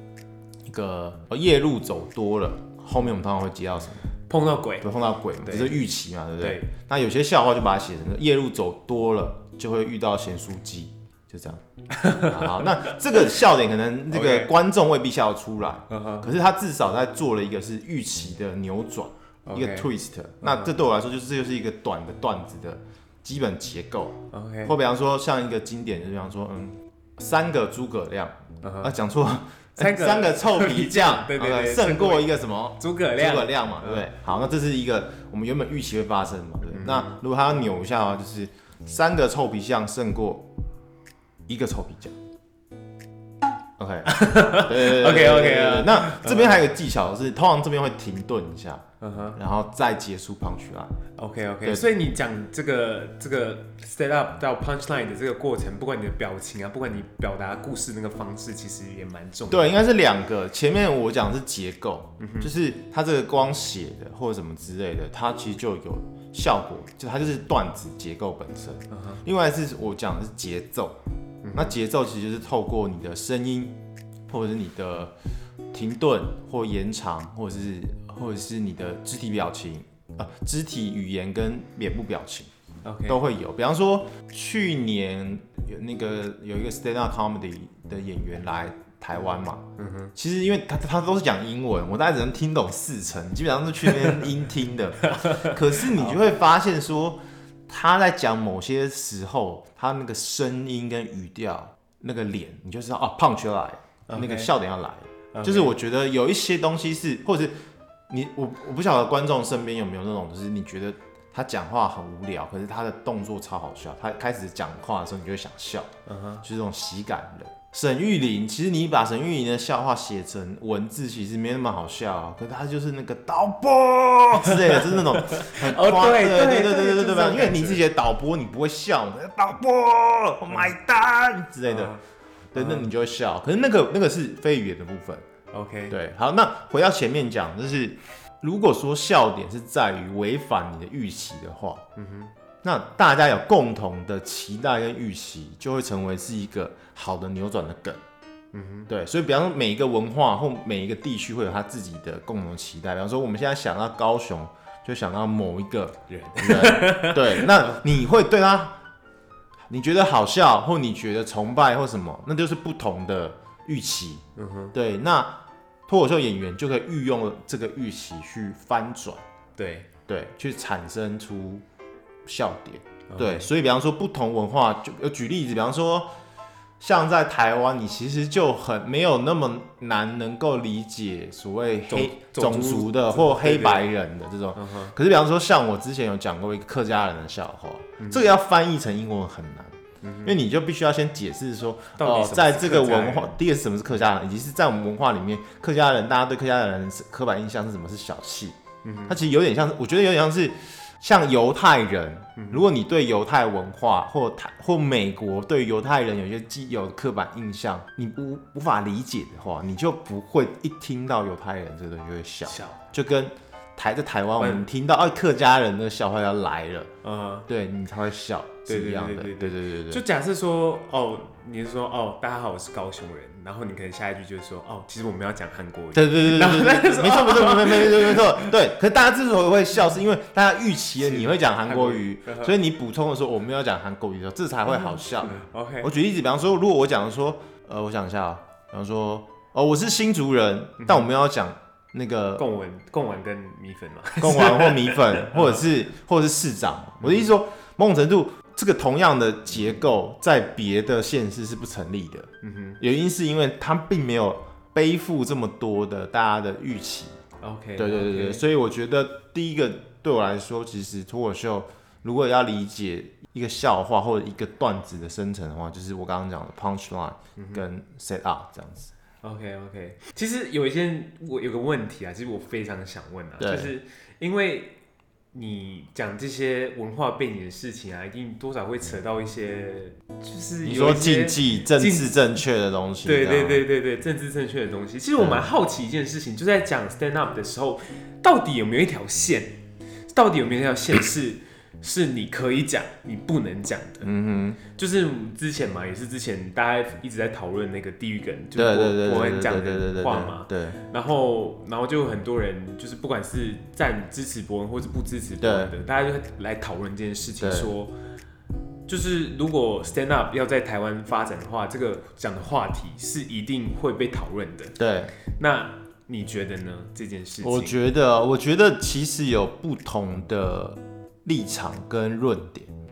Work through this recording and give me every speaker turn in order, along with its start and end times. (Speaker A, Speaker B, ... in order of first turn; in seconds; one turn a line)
Speaker A: 0.7-4.1
Speaker B: 4.3-4.9
Speaker A: 4.8-40.5
Speaker B: 5.4-5.8
Speaker B: 6.4-6.7
Speaker B: 11.9-12.6
Speaker B: 14.1-14.5
Speaker B: 15.9-16.3
Speaker B: 19.4-19.9
Speaker B: 20.4-20.7
Speaker B: 24.3-24.7
Speaker B: 28.6-28.9
Speaker B: 29.8-34.1
Speaker B: 36.7-37.2
Speaker A: 41.5-42.1
Speaker A: 43.8-48.8
Speaker B: 44.0-46.7
Speaker B: 49.0-49.4
Speaker A: 49.3-50.9
Speaker B: 51.1-59.8
Speaker A: 59.5-71.0
Speaker B: 62.2-62.5
Speaker B: 68.9-69.2
Speaker B: 71.4-71.7
Speaker A: 71.5-73.7
Speaker A: 74.3-75.1
Speaker A: 75.7-82.5
Speaker B: 82.8-83.2
Speaker A: 83.1-107.5
Speaker B: 89.8-90.1
Speaker B: 93.8-94.2
Speaker B: 95.0-96.2
Speaker B: 104.1-104.5
Speaker B: 105.3-105.8
Speaker A: 108.1-115.9
Speaker B: 116.0-116.4
Speaker A: 116.4-131.9
Speaker B: 124.4-127.8
Speaker B: 131.6-132.0
Speaker A: 132.5-135.2
Speaker B: 132.5-132.9
Speaker B: 135.5-135.9
Speaker A: 135.9-141.8
Speaker B: 141.9-142.3
Speaker A: 142.6-148.0
Speaker B: 148.5-148.9
Speaker A: 148.9-158.8
Speaker B: 156.1-157.8
Speaker A: 159.7-164.2
Speaker B: 164.3-164.7
Speaker A: 164.7-169.2
Speaker B: 169.6-169.9
Speaker A: 170.1-171.6
Speaker A: 172.2-176.1
Speaker B: 173.1-173.5
Speaker A: 176.8-216.9
Speaker B: 181.9-183.9
Speaker B: 184.5-184.9
Speaker B: 188.0-188.2
Speaker B: 190.0-190.3
Speaker B: 192.0-193.3
Speaker B: 198.8-199.2
Speaker B: 202.4-202.6
Speaker B: 212.5-212.8
Speaker B: 214.4-214.7
Speaker B: 217.0-217.5
Speaker A: 217.5-220.0
Speaker B: 218.7-228.5
Speaker A: 225.9-242.4
Speaker B: 231.0-232.6
Speaker B: 234.8-235.9
Speaker B: 240.8-241.1
Speaker B: 242.4-245.6
Speaker A: 244.2-257.2
Speaker B: 247.0-247.3
Speaker B: 252.4-252.8
Speaker B: 257.4-258.4
Speaker A: 257.8-268.9
Speaker B: 267.4-267.6
Speaker B: 269.2-274.8
Speaker A: 273.4-273.7
Speaker B: 275.3-282.1
Speaker A: 280.6-283.6
Speaker B: 283.0-289.6
Speaker A: 285.2-285.5
Speaker B: 290.1-294.1
Speaker A: 294.0-294.6
Speaker B: 294.6-307.9
Speaker A: 298.6-300.8
Speaker A: 305.4-305.7
Speaker A: 307.4-307.7
Speaker B: 308.9-314.8
Speaker A: 314.8-315.1
Speaker B: 315.4-317.8
Speaker A: 317.4-322.7